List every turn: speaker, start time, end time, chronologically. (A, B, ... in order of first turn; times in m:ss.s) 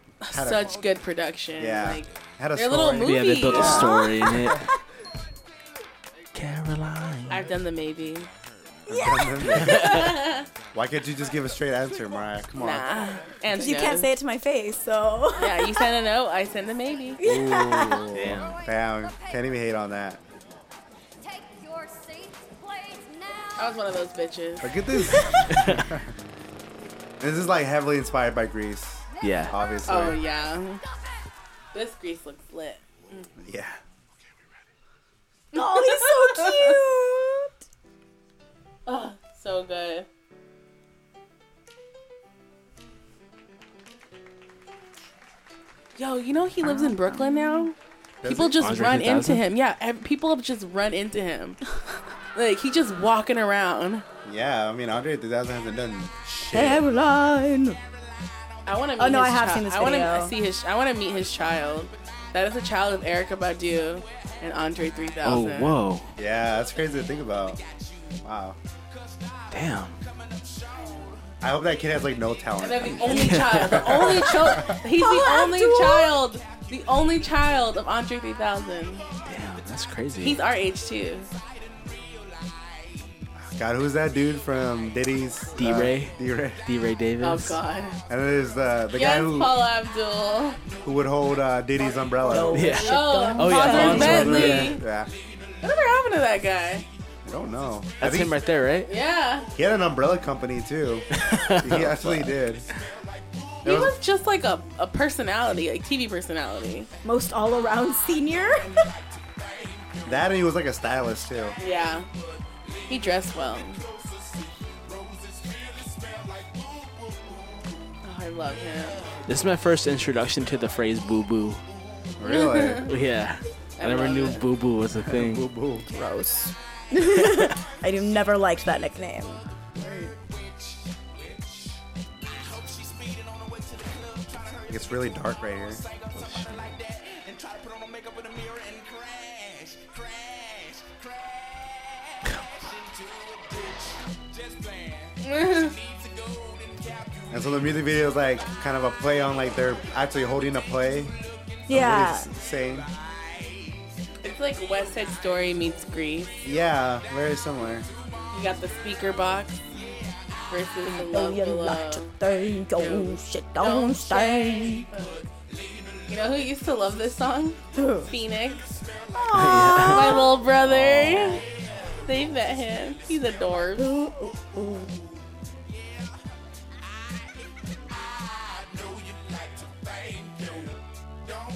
0:00.2-0:04.0 A
0:00.3-0:00.8 B
0:01.6-0:04.0 B
0:03.0-0:04.6 C
0:03.6-0:04.6 D
0:06.3-0:07.4 C
0:07.3-0:08.3 A
0:08.9-0:10.0 D
0:08.9-0:10.0 B
0:09.6-0:10.5 A
0:10.7-0:13.0 B
0:12.6-0:14.1 A
0:13.5-0:15.9 D
0:15.4-0:17.2 A
0:17.2-0:18.1 D
0:17.2-0:20.2 B
0:18.1-0:18.6 C
0:23.6-0:24.7 A
0:24.6-0:26.1 B
0:25.0-0:25.4 D
0:25.5-0:25.8 C
0:27.2-0:30.2 B
0:29.2-0:29.5 C
0:29.9-0:30.8 A
0:31.7-0:33.3 A
0:33.4-0:33.8 B
0:35.5-0:37.5 D
0:35.5-0:36.8 A
0:38.9-0:40.1 A
0:46.0-0:51.6 A
0:46.6-0:47.7 D
0:48.2-0:48.6 B
0:48.6-0:49.4 C
0:52.3-0:54.0 A
0:54.2-0:56.9 B
0:56.5-0:57.8 D
0:58.7-1:05.8 A
0:59.0-1:00.3 D
1:05.2-1:06.1 C
1:06.2-1:07.6 B
1:08.2-1:08.6 B
1:09.5-1:10.0 C
1:10.8-1:11.1 A
1:11.4-1:14.8 B
1:12.6-1:19.1 A
1:13.1-1:14.3 C
1:14.9-1:16.2 D
1:19.2-1:20.4 C
1:20.2-1:21.3 A
1:23.4-1:26.6 B
1:25.6-1:27.6 C
1:27.2-1:28.0 A
1:28.1-1:29.6 B
1:28.9-1:30.6 A
1:30.8-1:32.8 B
1:32.2-1:34.6 D
1:32.5-1:34.8 C
1:32.8-1:34.8 A
1:33.7-1:35.1 B
1:35.6-1:36.9 A
1:37.2-1:38.4 B
1:38.0-1:38.9 C
1:38.9-1:39.5 A
1:39.6-1:41.1 B
1:41.1-1:42.3 C
1:41.6-1:42.7 B
1:43.6-1:46.9 A
1:43.6-1:44.0 B
1:47.0-1:48.7 D
1:50.0-1:51.6 B
1:51.6-1:52.1 A
1:52.9-1:53.8 A
1:58.0-1:59.0 A
1:59.3-2:01.6 C
2:02.2-2:02.9 B
2:02.2-2:02.9 A
2:02.8-2:05.4 C
2:03.8-2:04.4 A
2:05.0-2:05.9 B
2:05.8-2:09.4 D
2:09.8-2:10.1 B
2:14.7-2:15.8 B
2:16.1-2:16.8 C
2:25.2-2:25.8 A
2:27.3-2:32.9 B
2:31.7-2:32.3 D
2:34.2-2:36.4 A
2:36.4-2:37.9 B
2:38.3-2:39.7 A
2:40.5-2:42.1 A
2:40.8-2:44.9 D
2:42.8-2:45.3 A
2:46.0-2:48.7 A
2:47.7-2:48.1 D
2:49.1-2:50.4 D
2:49.3-2:51.3 C
2:49.8-2:51.4 A
2:52.0-2:53.9 A
2:53.8-2:54.9 D